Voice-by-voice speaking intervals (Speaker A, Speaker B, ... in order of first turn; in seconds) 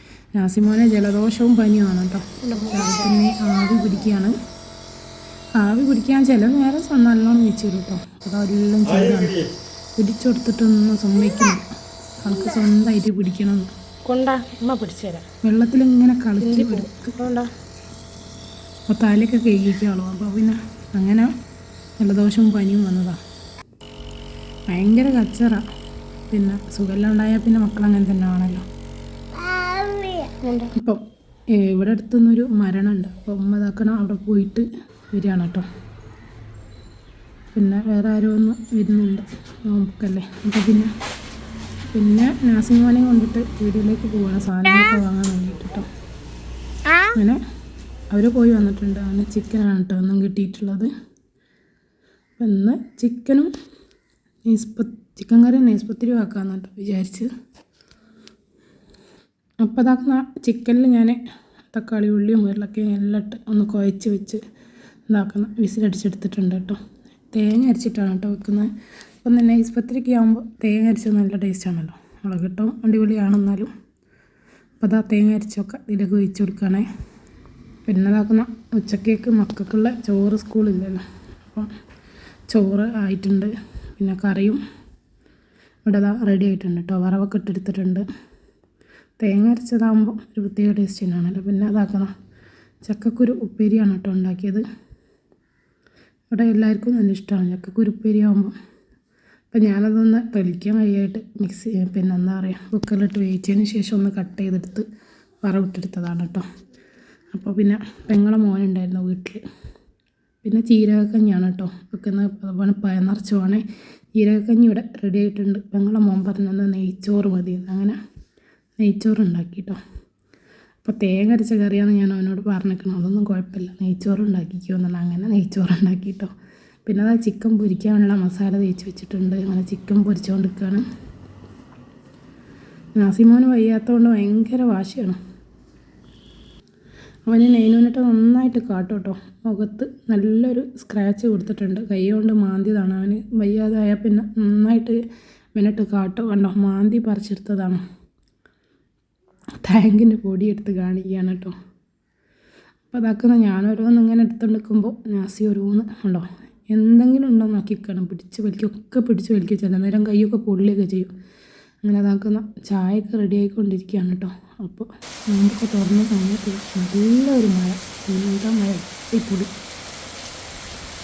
Speaker A: 0.3-4.3, 5.6-11.6, 12.2-13.7, 15.4-17.1, 18.9-21.3, 22.0-23.2, 24.7-25.6, 26.3-28.6, 30.7-31.0, 31.5-35.6, 37.5-40.9, 41.9-45.8, 47.1-47.4, 48.1-50.9, 52.4-53.5, 54.5-57.3, 59.6-61.2, 61.7-64.4, 65.1-66.8, 67.3-68.7, 69.2-73.7, 74.8-76.8, 77.8-81.7, 82.5-84.6, 85.8-88.0, 89.2-92.1, 92.8-94.6, 96.3-98.5, 99.5-104.8, 105.4-106.4, 107.3-109.4, 110.4-113.6, 114.2-118.0, 118.8-119.8, 120.8-126.3, 126.8-130.8, 132.9-135.2, 137.2-145.0, 145.5-147.8, 149.6-151.5, 152.9-161.1, 161.8-169.5
Speaker B: 2.4-3.1, 14.1-15.2, 16.4-17.5, 30.0-30.7